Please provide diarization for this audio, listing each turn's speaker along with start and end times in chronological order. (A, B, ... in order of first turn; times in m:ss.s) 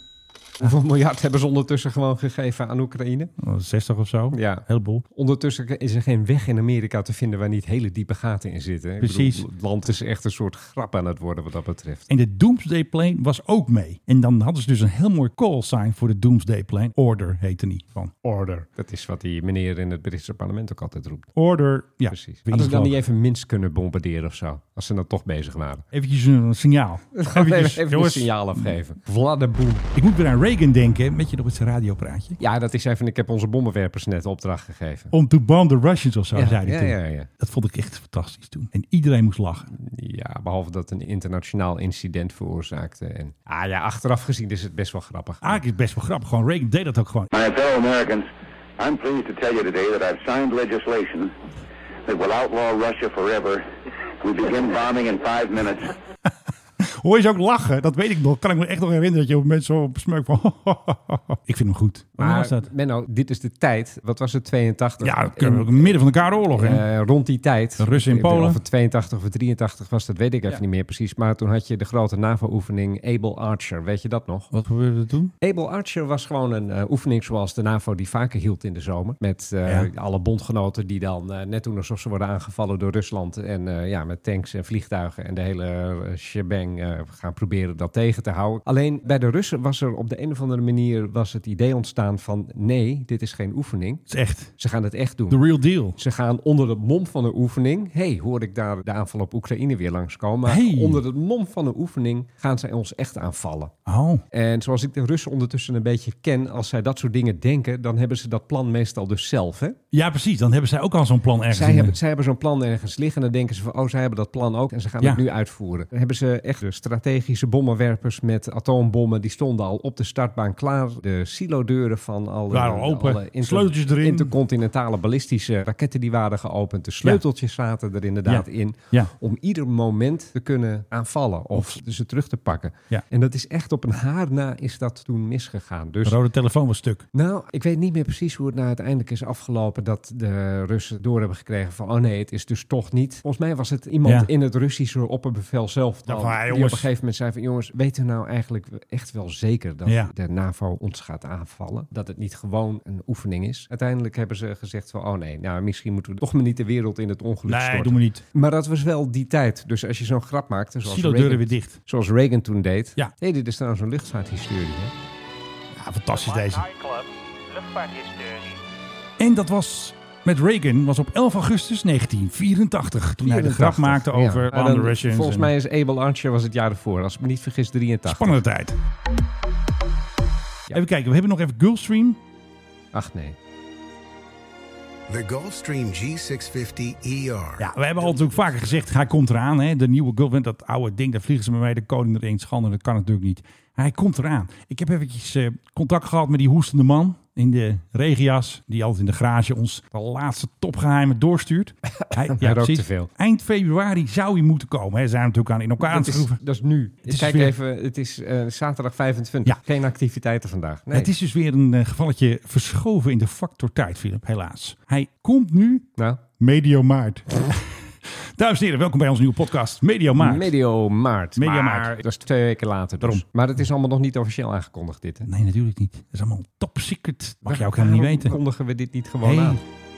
0:00.6-0:03.3 A
0:03.4-0:05.0 B
0:04.3-0:12.1 A
0:09.0-0:09.5 B
0:12.1-0:18.1 B
0:18.2-0:21.3 A
0:21.4-0:23.0 B
0:22.1-0:25.8 A
0:25.9-0:28.7 B
0:27.2-0:29.9 A
0:30.0-0:32.4 B
0:32.4-0:35.1 A
0:35.1-0:39.7 B
0:36.4-0:37.3 A
0:39.7-0:45.6 A
0:45.4-0:47.3 B
0:47.3-0:51.3 C
0:52.1-0:53.7 C
0:54.2-0:55.9 C
0:56.8-1:02.7 B
1:02.2-1:14.5 A
1:05.0-1:06.8 B
1:07.8-1:08.6 B
1:14.5-1:15.3 B
1:15.4-1:34.1 A
1:34.1-1:34.5 B
1:34.6-1:35.4 A
1:35.3-1:36.0 B
1:36.0-1:43.7 A
1:40.5-1:41.0 B
1:43.9-1:44.2 B
1:44.3-1:49.8 A
1:49.9-1:52.0 B
1:51.5-2:16.2 A
2:02.5-2:04.4 B
2:08.3-2:09.1 B
2:16.0-2:17.1 B
2:17.1-2:44.9 A
2:24.0-2:24.3 B
2:26.1-2:26.9 B
2:29.9-2:30.1 B
2:37.5-2:38.2 B
2:40.8-2:41.8 B
2:45.7-2:46.7 B
2:49.2-2:55.5 B
2:53.2-2:58.4 A
2:58.1-2:58.8 B
3:00.7-3:02.2 B
3:02.9-3:03.4 A
3:05.1-3:07.7 D
3:07.6-3:26.4 B
3:08.2-3:08.5 A
3:22.0-3:23.1 A
3:25.8-3:31.1 A
3:27.1-3:27.5 B
3:30.9-3:40.5 B
3:36.0-3:36.2 A
3:40.2-3:45.3 A
3:41.4-3:42.0 B
3:45.3-3:48.4 B
3:47.4-3:49.6 A
3:49.2-3:49.6 B